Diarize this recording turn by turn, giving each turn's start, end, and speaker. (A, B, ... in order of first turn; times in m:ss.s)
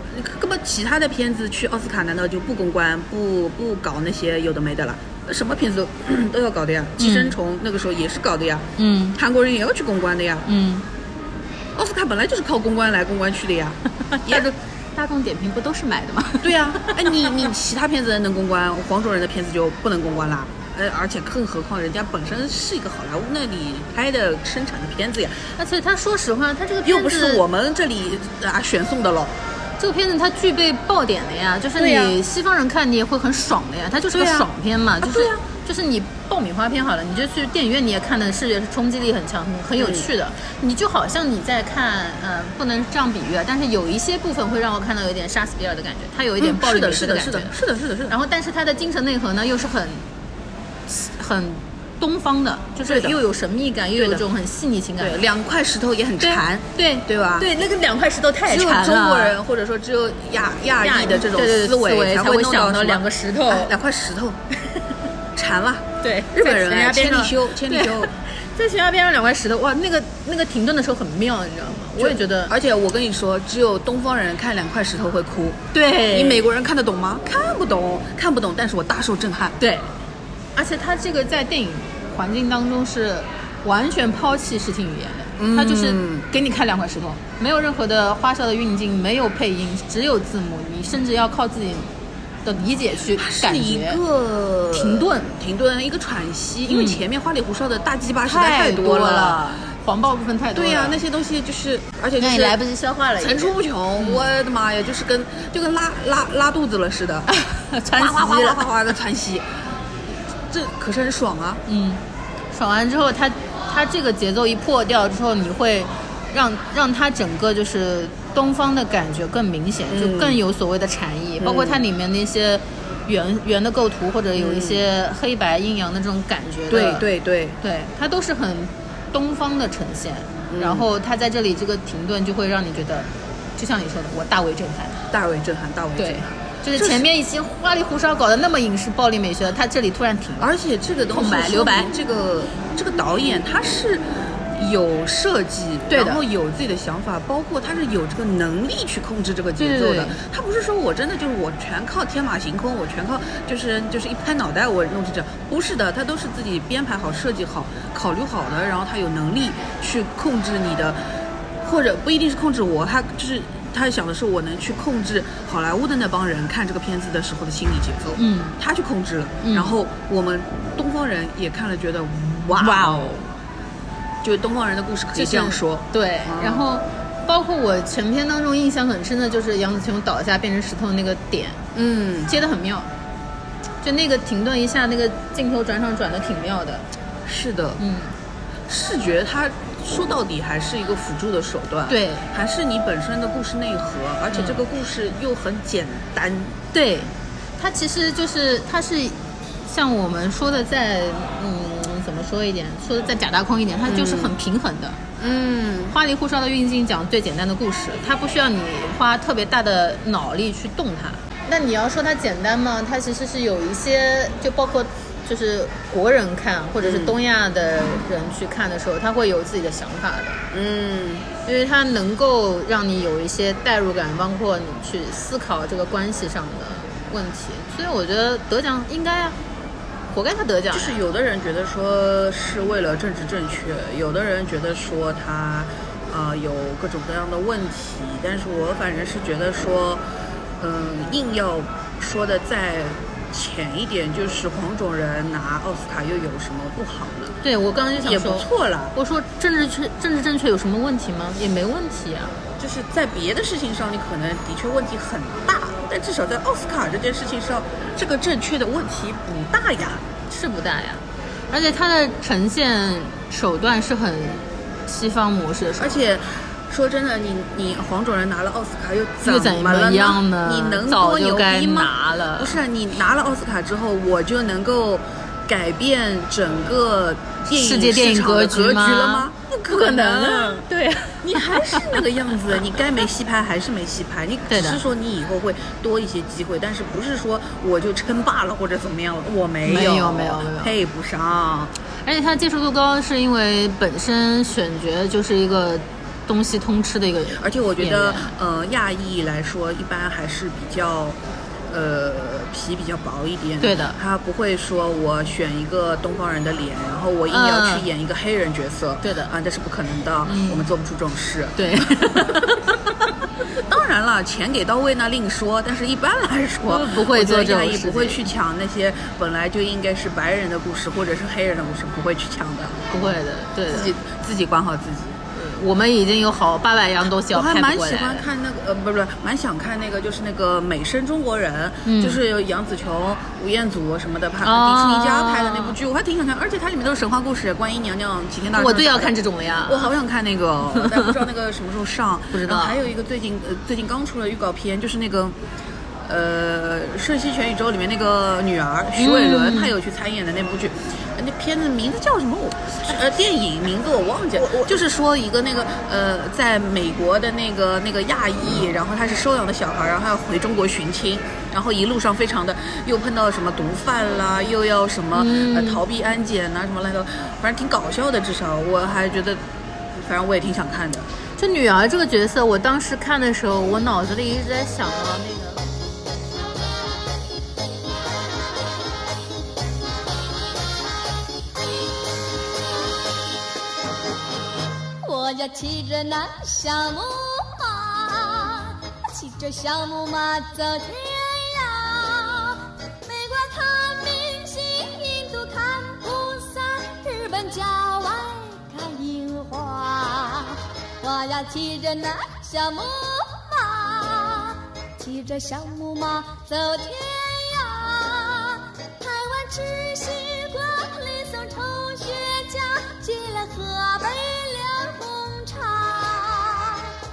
0:00.1-0:10.5 A
0:07.0-0:07.4 B
0:08.8-0:09.2 B
0:10.4-0:10.8 B
0:11.7-0:14.5 A
0:14.1-0:17.5 B
0:16.4-0:25.4 A
0:25.6-0:27.4 B
0:26.8-0:29.4 A
0:29.8-0:50.0 B
0:31.8-0:32.2 A
0:34.1-0:34.5 A
0:35.0-0:35.4 A
0:39.8-0:40.1 A
0:46.4-0:48.2 A
0:50.9-0:55.2 B
0:52.8-0:53.2 A
0:54.0-0:54.2 A
0:55.0-0:57.5 A
0:56.2-0:59.4 B
0:58.5-1:04.4 A
1:00.8-1:03.8 B
1:05.3-1:08.1 A
1:06.0-1:12.5 B
1:12.0-1:19.6 A
1:15.7-1:16.5 B
1:19.6-1:19.9 B
1:20.5-1:34.0 B
1:25.4-1:26.3 A
1:33.2-1:39.5 A
1:34.7-1:35.3 B
1:36.7-1:37.0 B
1:38.2-1:41.0 B
1:40.5-1:42.6 A
1:42.2-1:44.3 B
1:43.2-1:47.3 A
1:47.3-1:48.7 B
1:47.9-1:49.6 A
1:50.5-1:51.6 A
1:51.6-2:07.1 B
1:59.8-2:00.4 A
2:01.4-2:01.8 A
2:04.3-2:04.8 A
2:06.7-2:07.6 A
2:07.6-2:15.0 B
2:10.5-2:10.9 A
2:15.1-2:17.1 A
2:16.0-2:20.5 B
2:20.4-2:41.0 A
2:21.1-2:21.9 B
2:25.9-2:26.2 B
2:29.6-2:30.2 B
2:41.6-2:53.2 A
2:48.2-2:48.6 B
2:49.4-2:49.8 B
2:52.5-2:53.3 B
2:54.2-2:56.7 A
2:55.1-3:01.6 B
3:01.7-3:02.3 A
3:02.2-3:02.9 B
3:03.8-3:06.8 B
3:07.2-3:07.8 A
3:07.8-3:08.1 B
3:08.7-3:16.6 A
3:11.9-3:12.2 B
3:14.3-3:14.6 B
3:16.7-3:25.0 B
3:23.9-3:24.3 A
3:25.2-3:25.9 A
3:25.9-3:40.4 B
3:36.8-3:37.1 A
3:40.5-3:41.3 A
3:41.4-3:49.4 B
3:50.1-3:51.0 B
3:50.7-4:00.0 A
4:00.6-4:07.4 A
4:07.4-4:12.4 B
4:08.0-4:09.0 A
4:12.6-4:20.0 A
4:20.3-4:26.0 B
4:25.8-4:40.6 A
4:29.2-4:32.6 B
4:37.5-4:42.1 B
4:41.2-4:51.7 A
4:44.5-4:44.8 B
4:49.6-4:50.8 B
4:52.0-4:58.3 B
4:57.3-5:12.4 A
5:03.6-5:04.0 B
5:07.3-5:07.9 B
5:09.0-5:09.3 B
5:10.2-5:10.7 B
5:11.6-5:12.9 B
5:13.6-5:25.2 A
5:16.6-5:18.2 B
5:22.9-5:23.9 B
5:25.3-5:28.3 B
5:27.1-5:45.4 A
5:31.8-5:32.2 B
5:34.4-5:35.8 B
5:38.5-5:39.9 B
5:40.7-5:41.1 B
5:42.3-5:42.8 B
5:46.1-6:09.4 A
5:49.0-5:49.7 B
6:05.1-6:05.8 B
6:09.9-6:11.1 A
6:11.4-6:15.6 B
6:25.0-6:57.0 C